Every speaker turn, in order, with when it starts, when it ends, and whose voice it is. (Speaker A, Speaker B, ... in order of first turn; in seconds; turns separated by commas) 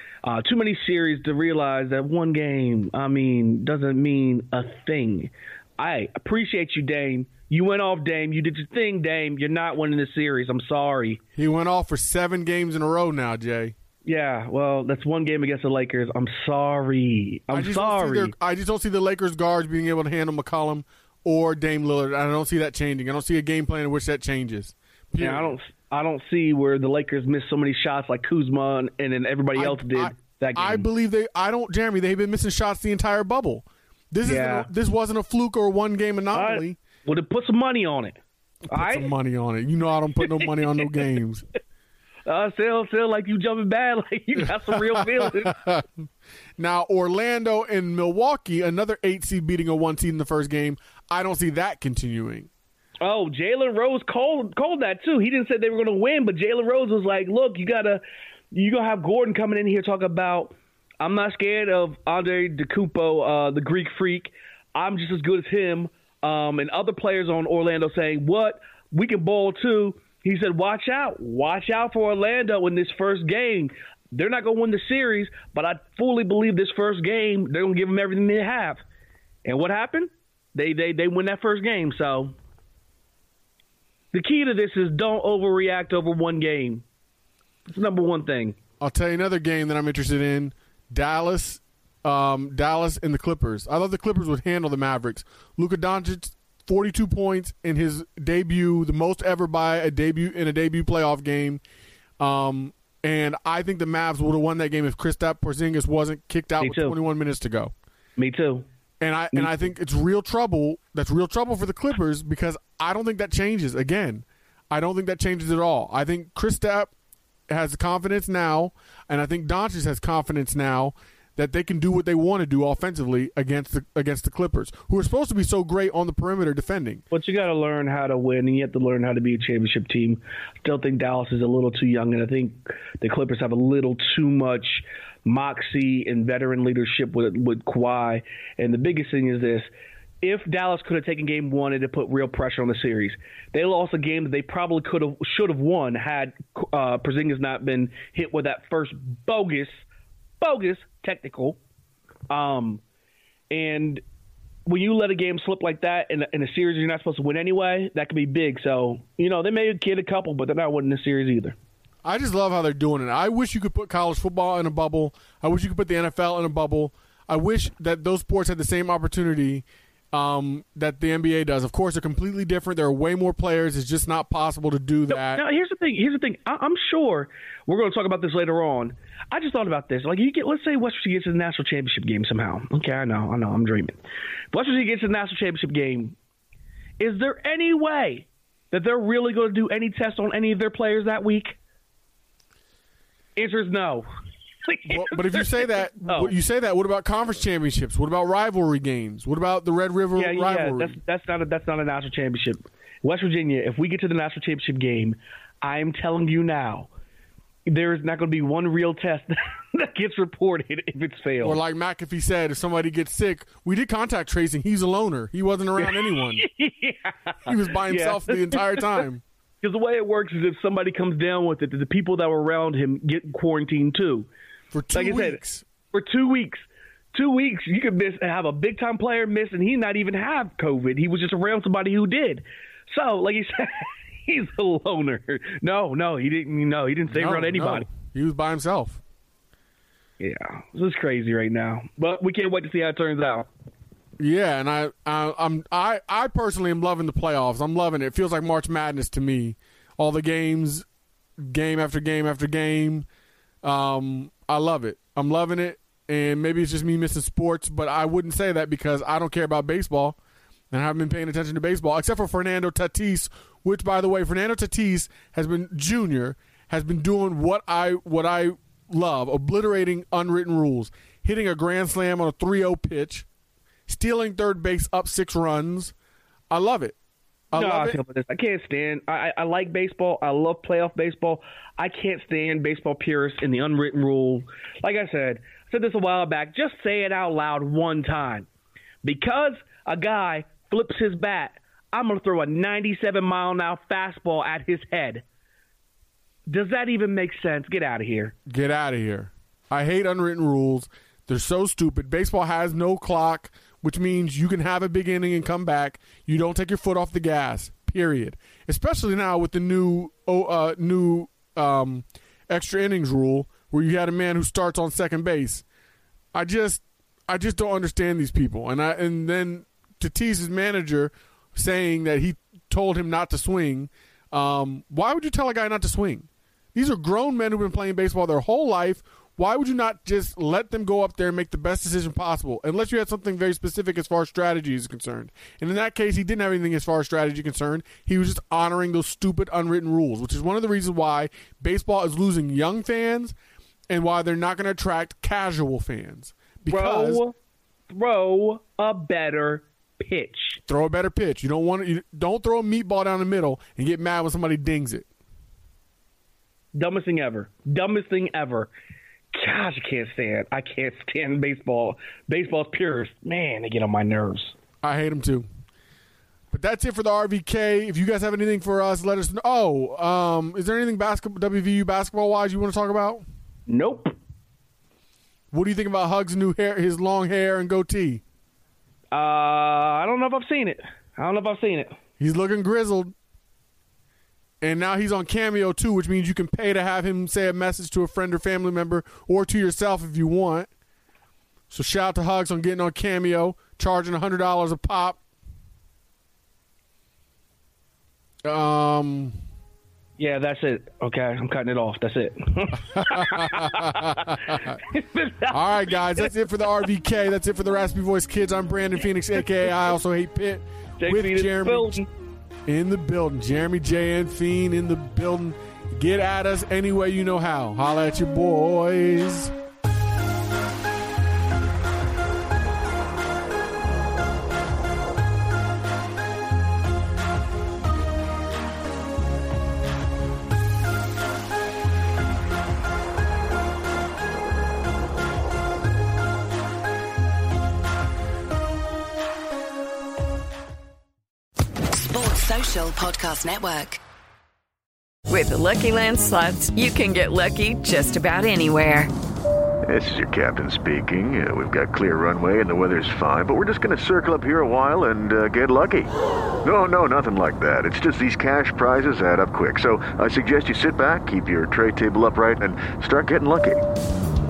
Speaker A: 0.2-11.2, Speaker B: 11.3-13.7, Speaker A: 14.0-18.3, Speaker B: 17.5-25.5, Speaker A: 25.2-30.9, Speaker B: 29.6-36.8, Speaker A: 34.2-34.7, Speaker A: 36.3-38.2, Speaker A: 38.7-39.1, Speaker B: 38.7-41.4, Speaker A: 40.2-41.0, Speaker A: 42.2-45.6, Speaker B: 44.7-45.9, Speaker B: 46.6-52.5, Speaker A: 53.0-78.8, Speaker A: 79.4-82.3, Speaker A: 84.1-86.8, Speaker A: 87.7-88.5, Speaker B: 88.8-101.6, Speaker B: 102.2-107.7, Speaker A: 106.6-106.9, Speaker A: 108.2-108.6, Speaker B: 109.0-116.9, Speaker A: 109.3-109.7, Speaker B: 117.5-127.0, Speaker A: 127.1-139.7, Speaker A: 140.2-149.8, Speaker A: 150.4-151.6, Speaker A: 152.3-152.8, Speaker A: 153.5-154.0, Speaker A: 154.7-161.6, Speaker B: 162.0-175.4, Speaker A: 175.1-184.0, Speaker A: 184.5-186.2, Speaker A: 187.0-191.6, Speaker A: 193.3-194.1, Speaker A: 194.7-196.3, Speaker B: 194.9-200.9, Speaker A: 200.2-206.9, Speaker A: 207.7-211.6, Speaker B: 211.4-216.5, Speaker A: 215.8-219.0, Speaker B: 217.4-219.2, Speaker A: 219.6-224.3, Speaker B: 224.7-225.6, Speaker A: 224.9-225.4, Speaker A: 225.9-237.9, Speaker B: 237.1-239.0, Speaker A: 240.2-243.5, Speaker B: 244.2-250.8, Speaker B: 251.4-253.1, Speaker B: 253.6-260.1, Speaker B: 260.7-273.2, Speaker B: 273.9-275.9, Speaker B: 276.5-276.9, Speaker B: 277.5-278.0, Speaker A: 277.5-288.5, Speaker A: 289.0-295.2, Speaker A: 296.5-298.3, Speaker B: 298.5-315.6, Speaker B: 316.3-343.3, Speaker B: 343.9-347.2, Speaker A: 346.7-347.3, Speaker A: 347.9-350.6, Speaker B: 350.6-355.1, Speaker A: 356.7-358.7, Speaker A: 359.3-364.6, Speaker B: 364.8-365.5, Speaker B: 366.5-373.2, Speaker A: 373.7-374.1, Speaker B: 375.5-378.2, Speaker A: 379.1-381.9, Speaker B: 382.2-383.1, Speaker B: 384.6-390.7, Speaker B: 391.7-395.2, Speaker B: 398.4-399.3, Speaker A: 400.2-406.3, Speaker B: 402.9-404.8, Speaker B: 405.5-412.0, Speaker A: 409.4-409.7, Speaker A: 411.0-412.1, Speaker B: 412.7-419.5, Speaker C: 442.0-444.0, Speaker D: 445.3-449.1, Speaker E: 449.9-456.1, Speaker E: 456.6-463.8